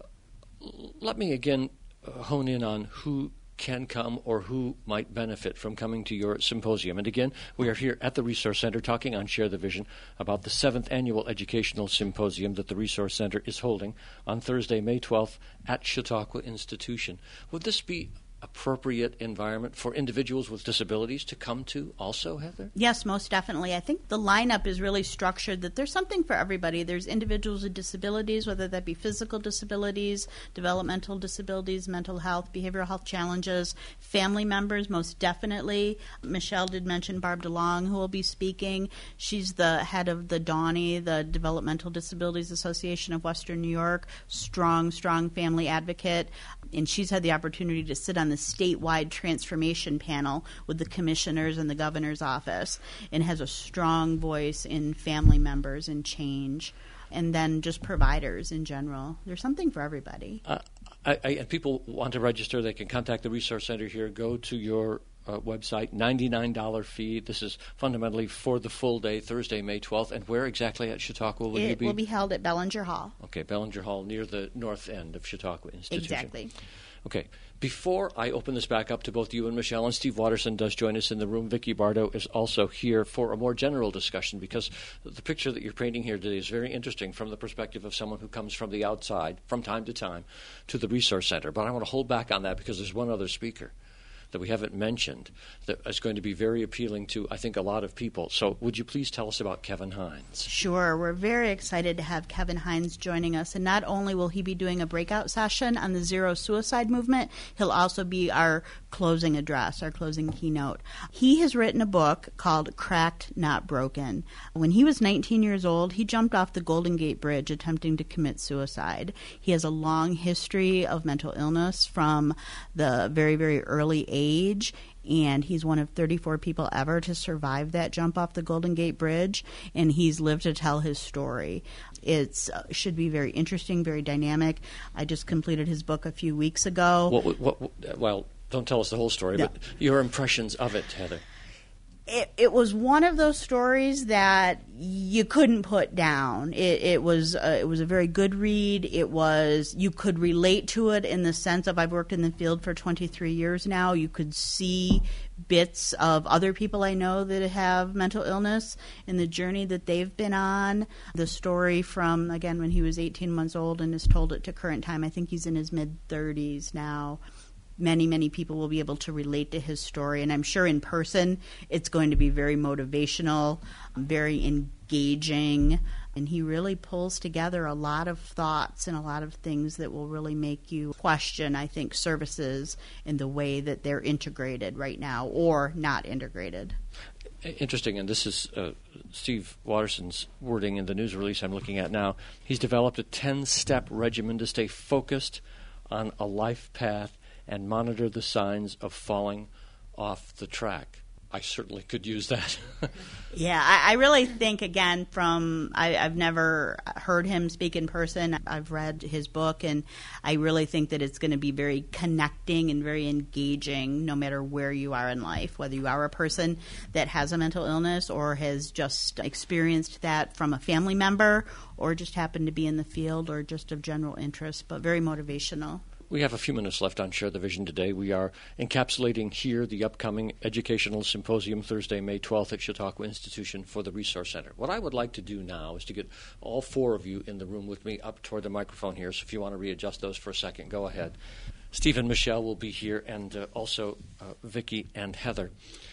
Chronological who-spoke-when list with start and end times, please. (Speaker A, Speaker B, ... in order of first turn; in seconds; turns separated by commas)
Speaker A: 0.6-22.7, Speaker B: 22.8-60.4, Speaker A: 60.5-72.0, Speaker B: 71.5-73.2, Speaker A: 73.2-76.3, Speaker B: 75.9-76.5, Speaker A: 77.0-93.7, Speaker A: 94.3-100.5, Speaker B: 100.5-137.2, Speaker A: 137.1-141.2, Speaker B: 142.1-167.2, Speaker B: 167.8-186.8, Speaker A: 187.4-203.0, Speaker B: 203.3-225.8, Speaker A: 226.1-241.2, Speaker A: 241.7-245.5